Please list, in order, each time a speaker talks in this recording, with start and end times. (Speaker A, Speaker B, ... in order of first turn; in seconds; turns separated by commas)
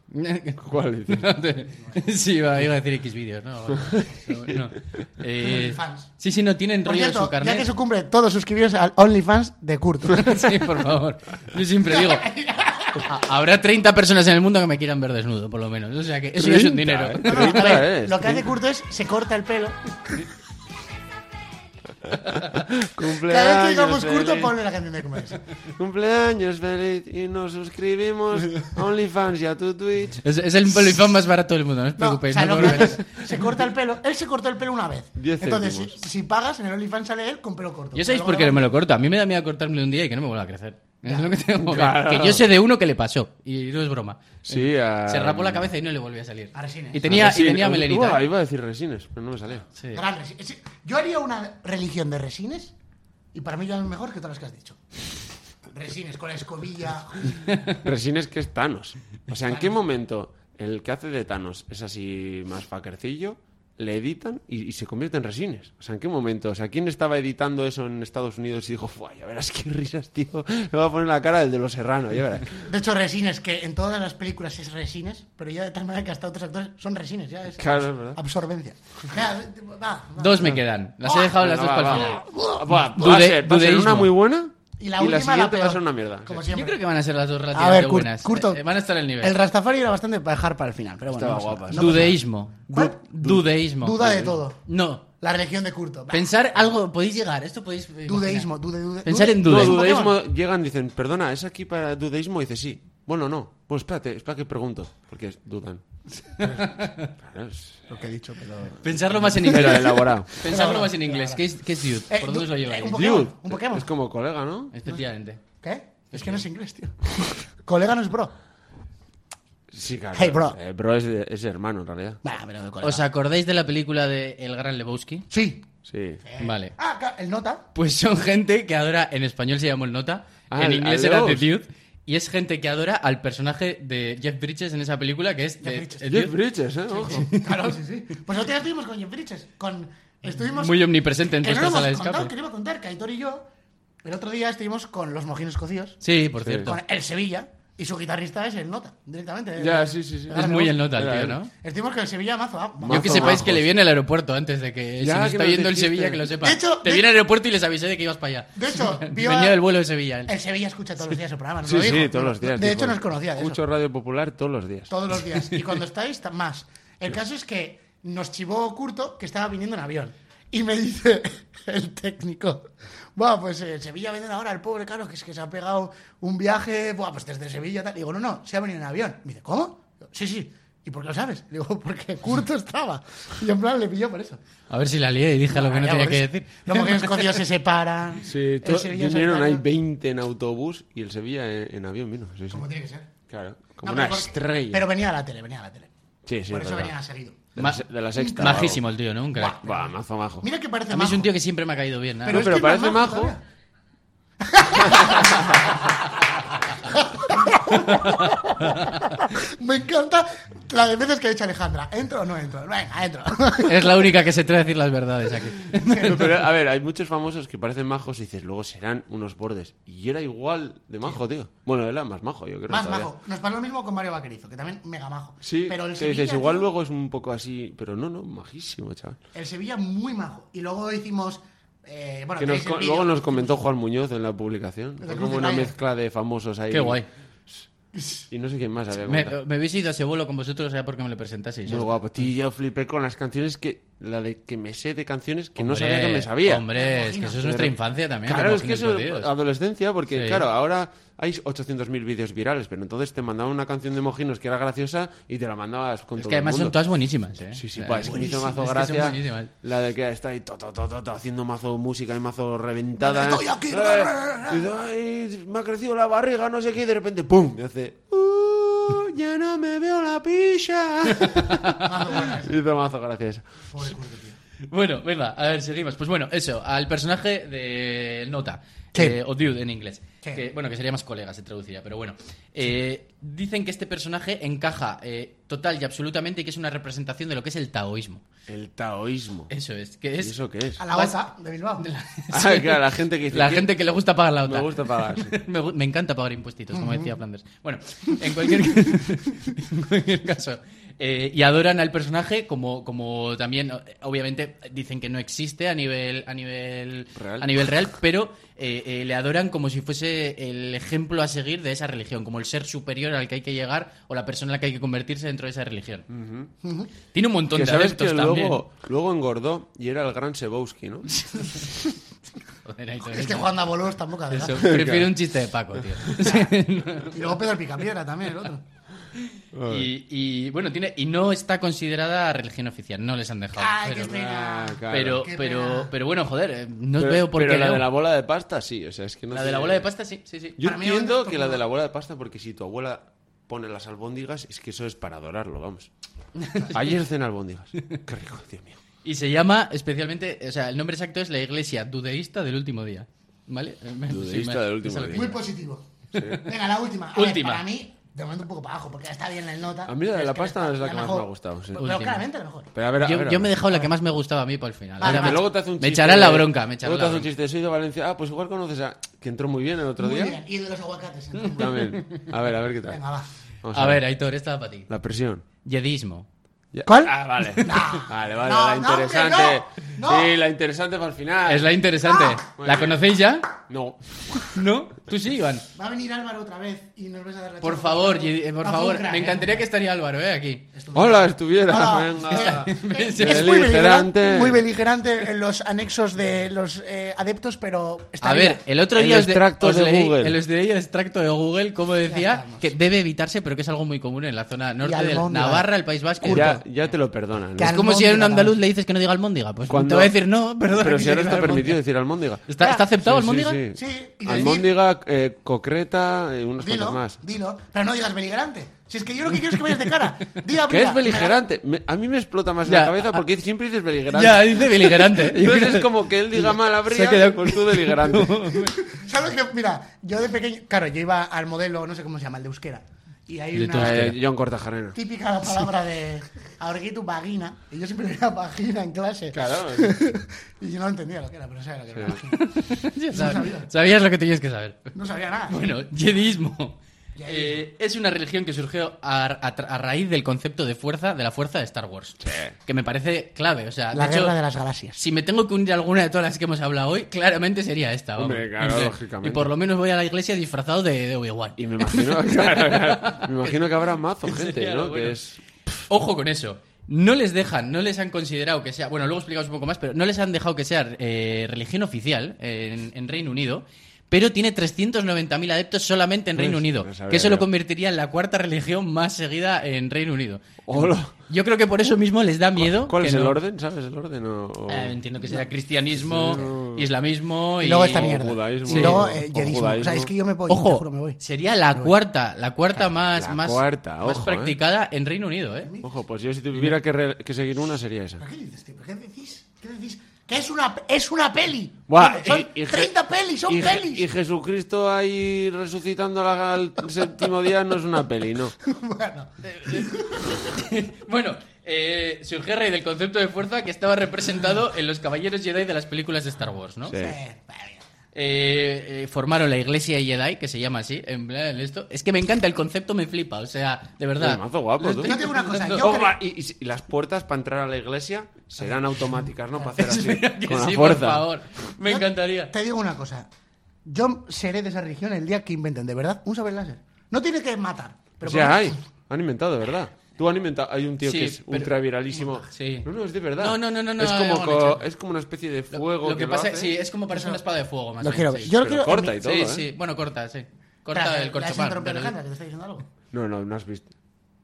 Speaker A: 0.1-7.7, Speaker B: 0.6-1.3, Speaker C: 1.7-2.0, Speaker B: 3.8-4.6, Speaker C: 5.4-6.1, Speaker C: 6.8-10.3, Speaker A: 10.1-12.3, Speaker C: 11.9-13.1, Speaker A: 13.0-17.8, Speaker B: 16.4-18.5, Speaker C: 17.2-20.2, Speaker B: 22.1-24.5, Speaker C: 23.1-25.4, Speaker B: 25.7-30.2, Speaker A: 30.2-33.0, Speaker C: 32.0-38.7, Speaker B: 35.2-36.0, Speaker A: 37.9-48.2, Speaker C: 41.0-41.3, Speaker B: 41.6-42.5, Speaker B: 44.5-45.7, Speaker C: 46.5-47.1, Speaker B: 47.0-49.6, Speaker A: 49.8-50.0, Speaker C: 49.9-52.7, Speaker C: 53.3-54.8, Speaker C: 55.6-57.5, Speaker B: 57.7-72.7, Speaker C: 72.6-81.4, Speaker B: 77.6-78.2, Speaker A: 80.2-84.1, Speaker B: 81.4-86.5, Speaker C: 81.9-82.7, Speaker C: 84.8-86.8, Speaker A: 86.5-89.3, Speaker C: 87.5-88.6, Speaker C: 89.2-92.2, Speaker B: 91.1-92.2, Speaker A: 91.7-94.1, Speaker C: 92.7-93.0, Speaker B: 92.7-94.3, Speaker C: 93.8-94.6, Speaker A: 94.7-95.0, Speaker C: 95.2-96.3, Speaker A: 96.1-98.5, Speaker C: 98.1-100.2, Speaker A: 99.0-99.8, Speaker B: 99.4-105.8, Speaker C: 106.2-106.6, Speaker A: 106.4-107.1, Speaker B: 106.4-107.9, Speaker C: 107.9-111.4, Speaker A: 108.8-113.0, Speaker B: 109.3-110.3, Speaker C: 112.0-113.9, Speaker B: 112.9-114.7, Speaker A: 114.7-115.4, Speaker C: 115.6-118.3, Speaker A: 116.1-116.4, Speaker B: 119.7-122.2, Speaker C: 120.1-120.6, Speaker C: 122.2-123.0, Speaker A: 122.8-125.2, Speaker C: 125.3-125.7, Speaker B: 125.8-126.2, Speaker C: 126.2-127.6, Speaker A: 126.4-126.7, Speaker A: 127.7-136.3, Speaker B: 130.5-131.5, Speaker C: 135.6-136.1, Speaker B: 136.1-137.3, Speaker C: 136.9-140.9, Speaker A: 137.1-137.6, Speaker A: 140.5-142.3, Speaker C: 141.4-143.5, Speaker C: 144.0-146.0, Speaker A: 146.0-146.8, Speaker B: 146.4-146.7, Speaker C: 146.6-150.8, Speaker B: 149.6-151.4, Speaker A: 150.3-151.5, Speaker C: 151.6-153.5, Speaker B: 152.8-153.7, Speaker A: 152.9-160.3, Speaker B: 155.0-156.3, Speaker C: 156.3-157.1, Speaker C: 158.5-159.6, Speaker C: 160.2-163.6, Speaker B: 161.6-164.9, Speaker C: 164.9-184.4, Speaker A: 184.7-187.3, Speaker C: 185.5-189.6, Speaker B: 188.2-192.7, Speaker C: 192.5-193.1, Speaker B: 193.3-194.8, Speaker C: 193.8-195.9, Speaker B: 196.2-196.9, Speaker C: 196.5-197.5, Speaker B: 197.6-198.8, Speaker A: 197.6-197.8, Speaker C: 198.1-198.8, Speaker A: 198.3-199.6, Speaker C: 199.3-201.3, Speaker B: 199.6-200.4, Speaker A: 200.9-202.5, Speaker C: 202.2-203.4, Speaker B: 202.3-203.3, Speaker C: 204.4-213.9, Speaker B: 204.9-205.5, Speaker A: 207.7-209.1, Speaker A: 213.6-216.2, Speaker C: 215.7-216.3, Speaker B: 216.0-223.1, Speaker C: 222.7-226.7, Speaker B: 225.4-229.2, Speaker C: 229.3-233.6, Speaker B: 232.4-237.5, Speaker C: 235.0-235.7, Speaker A: 236.7-237.1, Speaker C: 237.9-238.2, Speaker B: 238.3-239.3, Speaker A: 239.0-241.9, Speaker B: 241.7-246.6, Speaker A: 245.6-249.3, Speaker C: 246.7-247.4, Speaker B: 247.4-247.7, Speaker B: 248.2-256.8, Speaker A: 250.1-250.4, Speaker A: 256.2-259.5, Speaker B: 257.5-273.6, Speaker C: 258.0-258.6, Speaker C: 263.0-264.7, Speaker A: 271.2-271.9, Speaker C: 271.8-272.6, Speaker C: 273.7-274.4, Speaker A: 274.7-288.2, Speaker B: 288.5-289.5, Speaker A: 289.5-290.4, Speaker B: 290.2-290.8, Speaker C: 290.8-291.9, Speaker A: 290.9-291.1, Speaker A: 291.8-316.1, Speaker B: 292.3-293.7, Speaker B: 294.4-295.3, Speaker C: 296.7-297.1, Speaker B: 307.1-307.6, Speaker B: 316.1-316.5, Speaker C: 316.6-316.9, Speaker A: 317.1-318.6, Speaker B: 317.5-321.7, Speaker A: 322.6-323.6, Speaker C: 323.0-324.7, Speaker A: 324.3-327.2, Speaker B: 324.6-325.1, Speaker B: 325.9-326.4, Speaker C: 327.1-328.6, Speaker B: 329.5-329.9, Speaker A: 329.7-334.2, Speaker C: 333.6-335.9, Speaker B: 334.0-335.3, Speaker A: 334.9-337.9, Speaker B: 337.0-339.9, Speaker A: 339.3-340.6, Speaker B: 340.6-345.9, Speaker C: 340.6-341.6, Speaker A: 346.4-346.9, Speaker B: 346.7-348.8, Speaker A: 349.0-355.4, Speaker B: 354.1-355.4, Speaker C: 355.1-362.7, Speaker B: 356.1-356.4, Speaker A: 357.1-357.6, Speaker B: 359.9-362.0, Speaker A: 361.8-362.2, Speaker B: 362.7-363.5, Speaker A: 363.0-367.3, Speaker C: 365.0-365.4, Speaker B: 365.0-370.4, Speaker C: 370.0-372.0, Speaker B: 371.6-373.0, Speaker C: 372.9-373.3, Speaker B: 373.6-374.0, Speaker A: 373.7-374.9, Speaker B: 374.9-375.4, Speaker A: 375.6-376.3, Speaker B: 376.7-381.7, Speaker C: 376.8-380.3, Speaker A: 377.5-378.0, Speaker A: 381.4-383.5, Speaker C: 382.1-382.4, Speaker B: 382.6-383.0, Speaker B: 383.7-384.6, Speaker A: 384.5-385.6, Speaker C: 385.7-389.7, Speaker A: 387.6-390.6, Speaker C: 390.7-398.6, Speaker B: 390.9-394.6, Speaker A: 392.3-393.6, Speaker A: 398.2-406.6, Speaker B: 398.9-400.4, Speaker C: 402.0-402.7, Speaker C: 404.8-406.6, Speaker B: 406.3-407.8, Speaker C: 407.6-408.5, Speaker A: 407.6-411.8, Speaker B: 409.7-410.1, Speaker B: 410.7-412.5, Speaker A: 412.5-413.6, Speaker B: 413.0-417.2, Speaker C: 413.7-414.7, Speaker C: 416.6-421.4, Speaker B: 420.7-428.6, Speaker A: 422.6-423.2, Speaker A: 424.1-428.8, Speaker C: 428.8-434.1, Speaker A: 433.5-434.2, Speaker B: 433.7-435.0, Speaker C: 434.9-442.4, Speaker B: 439.3-440.0, Speaker A: 442.2-444.9, Speaker C: 443.1-443.7, Speaker C: 444.9-445.6, Speaker A: 445.5-454.4, Speaker C: 447.1-447.6, Speaker B: 452.2-452.5, Speaker C: 453.9-455.0, Speaker A: 454.9-463.6, Speaker B: 458.2-459.5, Speaker B: 461.6-465.8, Speaker A: 464.2-465.2, Speaker A: 465.9-483.4, Speaker B: 476.4-477.4, Speaker B: 480.7-481.1, Speaker B: 482.6-485.0, Speaker A: 484.7-489.0, Speaker B: 485.9-486.9, Speaker C: 487.6-491.2, Speaker B: 487.9-490.1, Speaker A: 490.5-495.7, Speaker B: 493.0-494.6, Speaker C: 495.6-495.9, Speaker B: 495.8-498.2, Speaker C: 498.2-504.1, Speaker B: 501.9-502.9, Speaker B: 503.4-508.5, Speaker C: 508.6-510.3, Speaker A: 509.4-517.0, Speaker B: 516.9-517.2, Speaker C: 517.0-517.8, Speaker A: 518.1-525.9, Speaker B: 524.2-525.2, Speaker C: 525.0-526.2, Speaker B: 525.8-531.3, Speaker A: 529.7-532.5, Speaker C: 531.8-533.3, Speaker C: 533.8-538.8, Speaker B: 538.2-546.8, Speaker A: 541.0-541.7, Speaker A: 542.5-544.8, Speaker A: 545.7-548.5, Speaker C: 547.1-547.4, Speaker C: 548.0-549.2, Speaker B: 548.5-549.7, Speaker A: 549.1-552.1, Speaker C: 550.9-552.9, Speaker B: 553.1-553.9